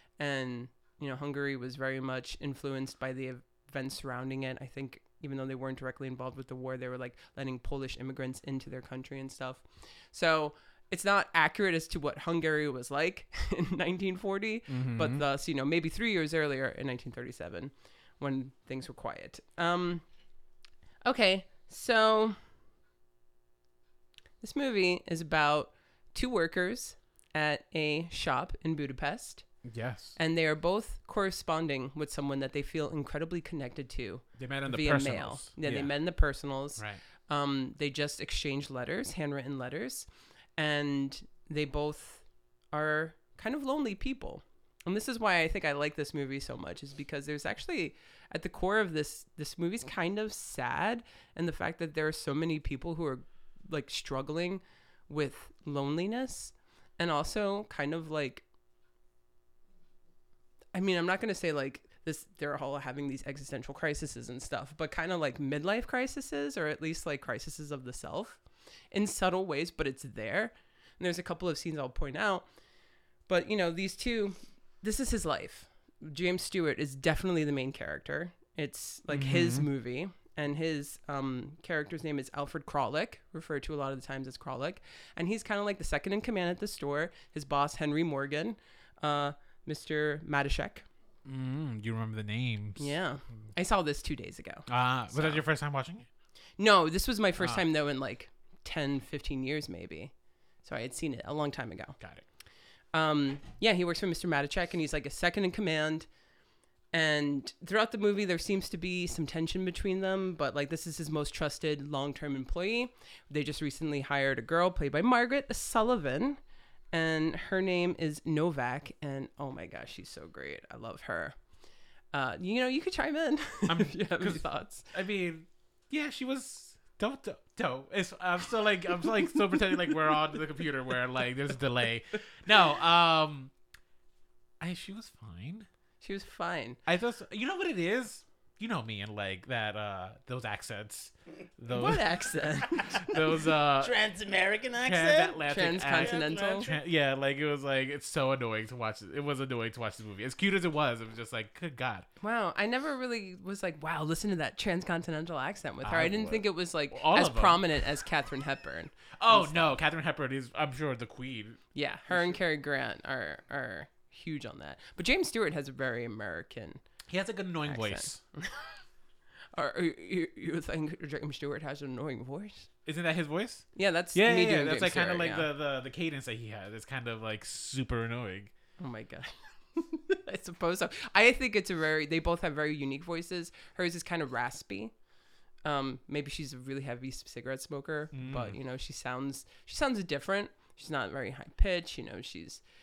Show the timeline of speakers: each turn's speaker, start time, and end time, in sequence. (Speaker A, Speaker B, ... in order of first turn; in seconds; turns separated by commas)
Speaker A: 0.2-20.0, Speaker B: 14.7-15.2, Speaker A: 21.1-22.4, Speaker A: 24.4-29.4, Speaker B: 29.6-30.2, Speaker A: 30.2-58.4, Speaker B: 34.4-35.9, Speaker A: 60.7-68.4, Speaker A: 68.9-72.5, Speaker A: 73.3-90.9, Speaker B: 79.1-79.7, Speaker B: 91.2-93.0, Speaker A: 92.8-95.4, Speaker B: 94.7-96.0, Speaker A: 96.6-100.1, Speaker B: 97.4-97.7, Speaker A: 100.6-102.0, Speaker A: 102.9-106.1, Speaker A: 106.9-116.4, Speaker A: 116.9-121.3, Speaker A: 122.1-124.9, Speaker B: 123.7-133.5, Speaker B: 134.6-135.7, Speaker A: 136.0-136.8, Speaker B: 136.9-144.0, Speaker A: 141.7-143.2, Speaker C: 143.8-146.8, Speaker B: 144.8-152.1, Speaker A: 145.4-146.7, Speaker A: 152.2-159.8, Speaker B: 155.8-157.7, Speaker B: 159.2-162.4, Speaker A: 161.8-166.8, Speaker B: 167.1-168.2, Speaker A: 167.7-168.7, Speaker A: 169.5-172.7, Speaker B: 172.9-178.5, Speaker A: 173.8-175.5, Speaker A: 178.8-184.9, Speaker A: 185.7-192.6, Speaker B: 188.1-188.6